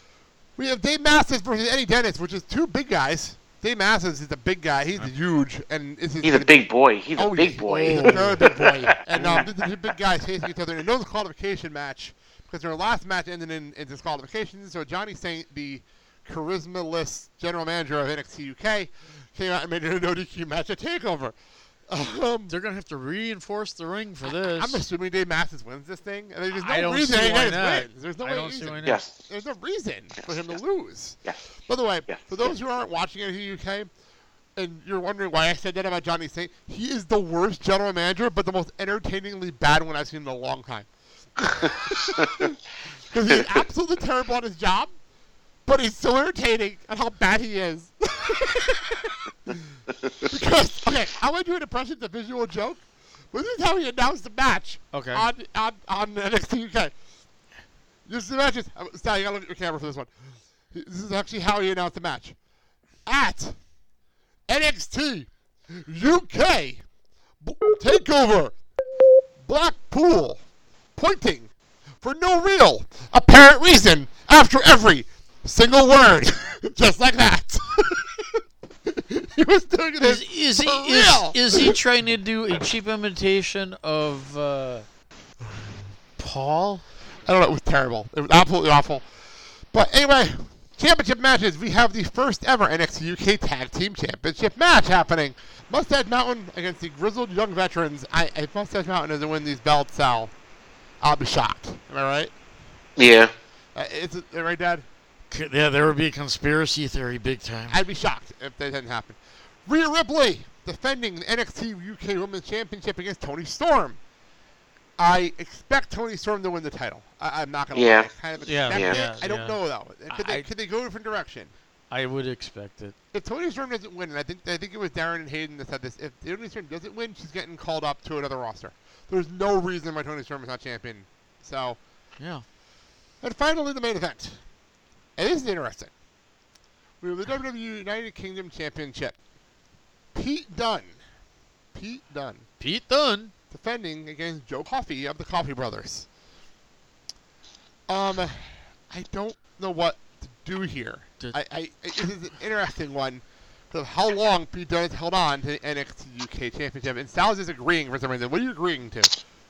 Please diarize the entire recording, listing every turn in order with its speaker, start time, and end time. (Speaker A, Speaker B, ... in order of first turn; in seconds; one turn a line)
Speaker A: 0.6-6.6
Speaker B: 6.2-9.5
Speaker A: 7.1-21.3
Speaker C: 7.6-8.5
Speaker A: 21.9-22.5
Speaker C: 22.5-24.8
Speaker A: 24.2-33.9
Speaker C: 26.5-29.0
Speaker B: 28.8-29.2
Speaker B: 30.2-30.6
Speaker B: 32.1-32.5
Speaker A: 34.5-40.9
Speaker A: 41.4-42.6
Speaker B: 42.2-42.4
Speaker A: 43.1-44.9
Speaker A: 45.6-56.9
Speaker C: 54.9-55.3
Speaker A: 58.0-62.4
Speaker A: 63.0-63.5
Speaker A: 64.5-66.8
Speaker A: 67.4-68.5
Speaker A: 69.4-70.4
Speaker A: 71.0-81.8
Speaker C: 80.0-84.9
Speaker C: 86.2-86.8
Speaker A: 87.2-89.1
Speaker A: 89.7-100.3
Speaker A: 101.0-102.3
Speaker B: 103.0-103.3
Speaker A: 103.7-104.9
Speaker C: 105.3-107.8
Speaker A: 107.7-114.0
Speaker A: 115.0-121.5
Speaker B: 117.7-118.1
Speaker C: 118.4-120.5
Speaker B: 118.7-119.0
Speaker C: 121.9-123.0
Speaker A: 123.1-131.8
Speaker C: 132.2-132.4
Speaker A: 133.2-134.4
Speaker A: 135.2-135.9
Speaker A: 137.0-139.2
Speaker A: 140.1-141.0
Speaker A: 141.7-142.5
Speaker C: 142.6-143.3
Speaker A: 143.5-146.1
Speaker A: 147.9-159.1